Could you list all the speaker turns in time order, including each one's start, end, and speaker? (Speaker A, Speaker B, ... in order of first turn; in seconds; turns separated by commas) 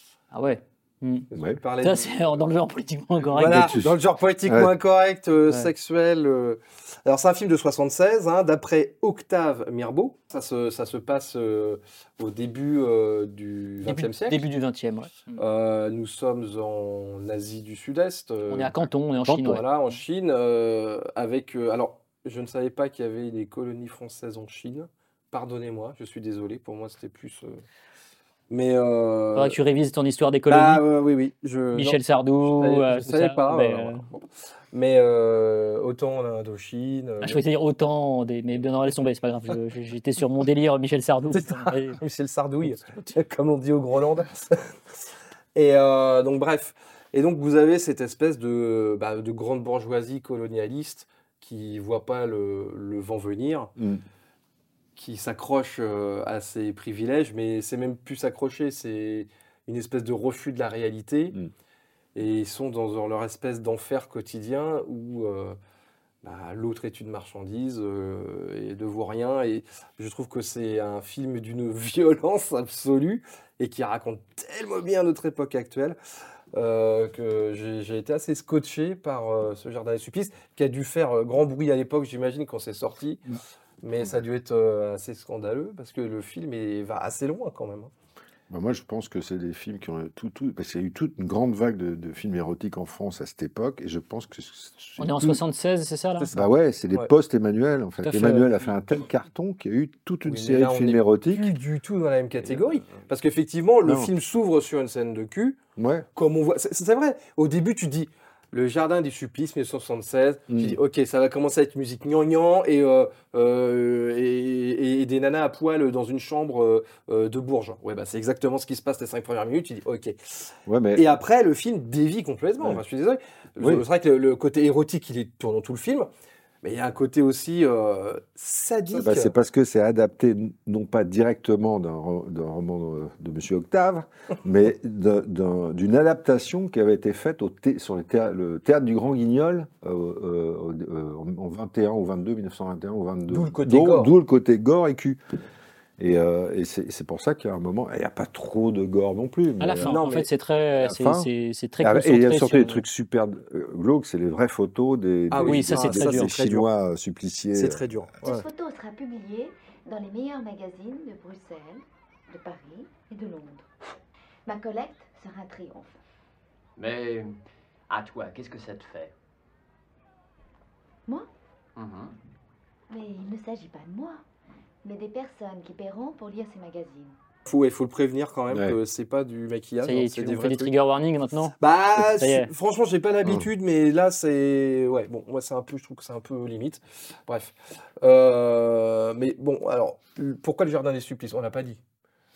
Speaker A: 0.3-1.3, Speaker B: 1.3-2.1, Speaker A: 1.8-3.8, Speaker B: 3.3-14.4, Speaker C: 3.4-4.7, Speaker A: 13.8-15.4, Speaker B: 15.3-18.8, Speaker A: 18.5-19.6, Speaker C: 19.3-19.6, Speaker B: 19.4-27.6, Speaker B: 28.5-29.6, Speaker A: 29.4-30.8, Speaker B: 30.5-37.4, Speaker A: 31.7-34.0, Speaker A: 37.2-42.0, Speaker B: 41.3-44.7, Speaker B: 45.5-53.7, Speaker C: 53.8-54.0, Speaker B: 55.0-61.4, Speaker B: 62.1-65.6, Speaker B: 66.2-76.0, Speaker B: 76.5-83.2, Speaker B: 83.8-87.9, Speaker C: 88.5-95.4, Speaker A: 95.0-96.3, Speaker B: 96.2-97.1, Speaker C: 96.3-101.5, Speaker A: 98.0-98.5, Speaker B: 100.2-105.6, Speaker C: 103.8-104.1, Speaker C: 105.8-106.1, Speaker B: 106.1-126.1, Speaker C: 110.5-110.8, Speaker C: 120.7-121.0, Speaker B: 126.6-129.3, Speaker C: 128.9-145.2, Speaker B: 143.3-144.1, Speaker C: 146.0-149.9, Speaker A: 149.6-152.8, Speaker B: 149.8-150.3, Speaker C: 150.8-151.3, Speaker C: 151.8-157.9, Speaker B: 155.3-156.7, Speaker A: 155.4-156.3, Speaker B: 157.5-158.4, Speaker D: 158.2-163.7, Speaker D: 164.4-166.0, Speaker E: 166.8-167.4, Speaker E: 167.9-169.1, Speaker E: 171.8-172.1, Speaker D: 172.9-174.2, Speaker D: 174.8-177.2, Speaker B: 177.5-180.7, Speaker C: 178.5-178.8, Speaker A: 179.8-182.5, Speaker B: 181.6-191.8